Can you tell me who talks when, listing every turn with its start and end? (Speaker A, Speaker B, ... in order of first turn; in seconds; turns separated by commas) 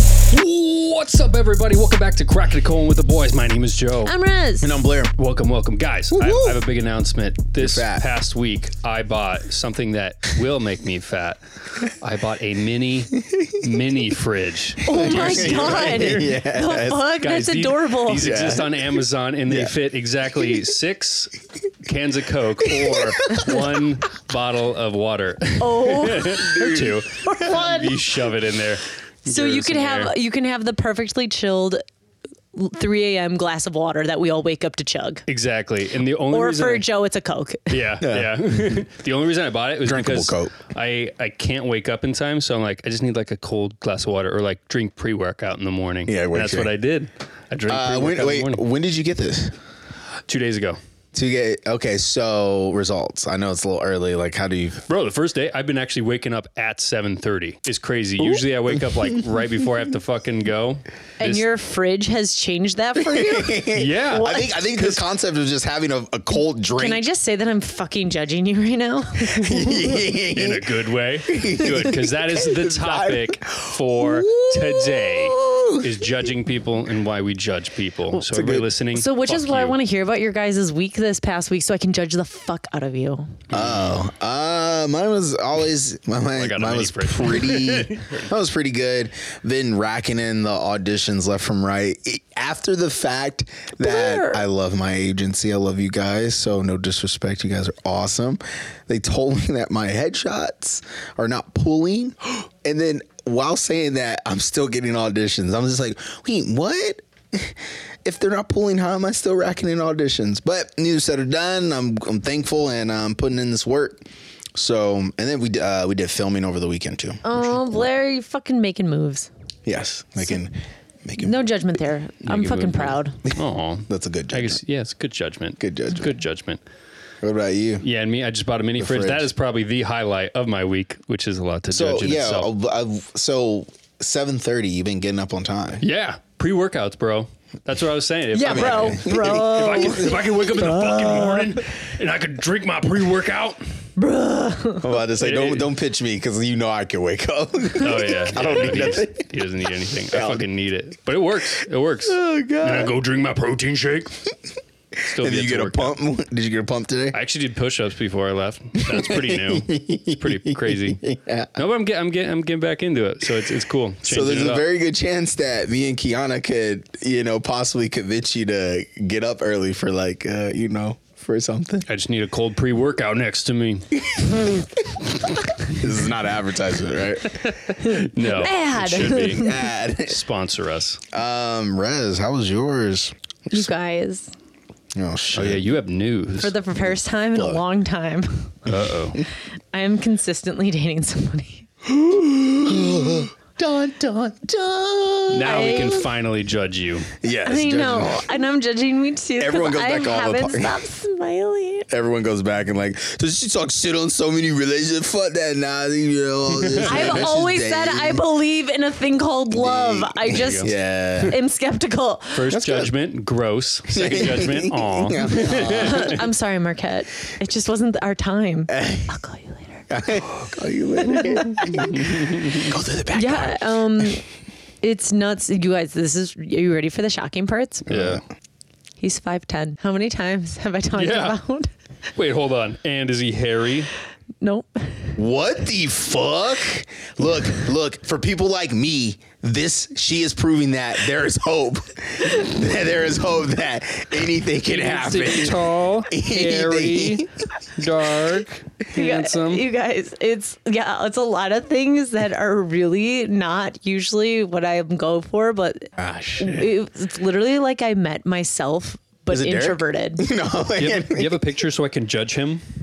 Speaker A: 0.2-4.1, Speaker B: 4.0-4.7, Speaker C: 4.6-5.1, Speaker A: 5.2-16.3, Speaker C: 6.1-6.6, Speaker C: 7.6-8.1, Speaker C: 13.2-13.6, Speaker B: 14.8-18.4, Speaker C: 14.9-17.1, Speaker A: 17.2-30.1, Speaker C: 18.1-18.8, Speaker C: 19.5-19.7, Speaker C: 22.6-23.8, Speaker B: 25.6-28.1, Speaker C: 26.4-26.9, Speaker B: 29.3-31.8, Speaker B: 32.5-35.2, Speaker A: 35.3-36.9, Speaker B: 36.3-37.7, Speaker A: 37.7-48.6, Speaker C: 38.0-38.8, Speaker C: 39.8-40.5, Speaker C: 46.1-46.7, Speaker C: 47.7-49.5, Speaker A: 50.3-50.8, Speaker C: 51.1-54.8, Speaker A: 54.9-61.4, Speaker B: 61.2-65.0, Speaker C: 63.0-67.0, Speaker A: 63.7-64.3, Speaker B: 66.8-69.9, Speaker C: 69.2-70.7, Speaker A: 70.3-79.8, Speaker C: 71.3-76.0, Speaker C: 78.3-78.7, Speaker B: 78.9-83.4, Speaker C: 83.5-114.0, Speaker A: 83.5-83.8, Speaker A: 86.3-88.3, Speaker B: 93.8-94.4, Speaker C: 114.5-117.8, Speaker B: 117.2-119.3, Speaker C: 119.7-121.4, Speaker B: 121.2-123.2, Speaker A: 122.2-126.6, Speaker C: 123.9-124.6, Speaker C: 125.6-126.1, Speaker C: 127.2-127.8, Speaker A: 127.8-132.5, Speaker C: 128.8-129.3, Speaker C: 131.7-135.8, Speaker A: 135.8-143.6, Speaker B: 138.3-141.6, Speaker C: 138.4-140.4, Speaker B: 144.0-144.9, Speaker C: 144.8-149.3, Speaker A: 145.2-145.7, Speaker A: 147.8-154.2, Speaker C: 150.1-150.4, Speaker C: 152.1-152.9, Speaker A: 155.0-155.9, Speaker C: 155.2-157.2, Speaker A: 157.1-161.0, Speaker C: 158.8-161.6, Speaker A: 161.6-164.6, Speaker C: 164.0-171.8, Speaker A: 171.9-173.8, Speaker C: 173.9-175.0, Speaker C: 175.6-177.4, Speaker A: 177.4-181.0, Speaker B: 177.8-179.6, Speaker C: 179.3-180.2, Speaker C: 181.1-183.7, Speaker B: 183.5-184.3, Speaker C: 184.9-185.7, Speaker A: 185.3-186.5, Speaker B: 186.4-188.6, Speaker C: 187.3-187.6, Speaker A: 188.7-189.2, Speaker B: 189.7-191.7, Speaker C: 191.8-195.7, Speaker A: 195.3-197.1, Speaker B: 195.4-196.1, Speaker C: 197.2-198.4, Speaker B: 197.4-201.9, Speaker C: 199.4-200.8, Speaker C: 201.9-208.2, Speaker A: 206.5-207.2, Speaker B: 206.8-210.7, Speaker C: 209.5-211.3, Speaker A: 210.3-211.3, Speaker B: 211.2-212.6, Speaker A: 212.3-216.2, Speaker C: 212.5-212.9, Speaker C: 213.9-216.2, Speaker B: 215.3-219.8, Speaker C: 218.7-219.1, Speaker C: 219.9-224.1, Speaker B: 221.1-221.9, Speaker A: 221.7-222.7, Speaker B: 223.1-224.2, Speaker B: 224.8-227.9, Speaker A: 227.9-228.2, Speaker C: 227.9-228.2, Speaker B: 229.0-231.7, Speaker A: 230.9-231.4, Speaker A: 232.2-233.9, Speaker B: 234.4-235.1, Speaker C: 235.2-247.3, Speaker A: 244.7-249.7, Speaker B: 248.9-260.3, Speaker C: 256.0-256.7, Speaker C: 259.3-261.4, Speaker A: 260.7-262.6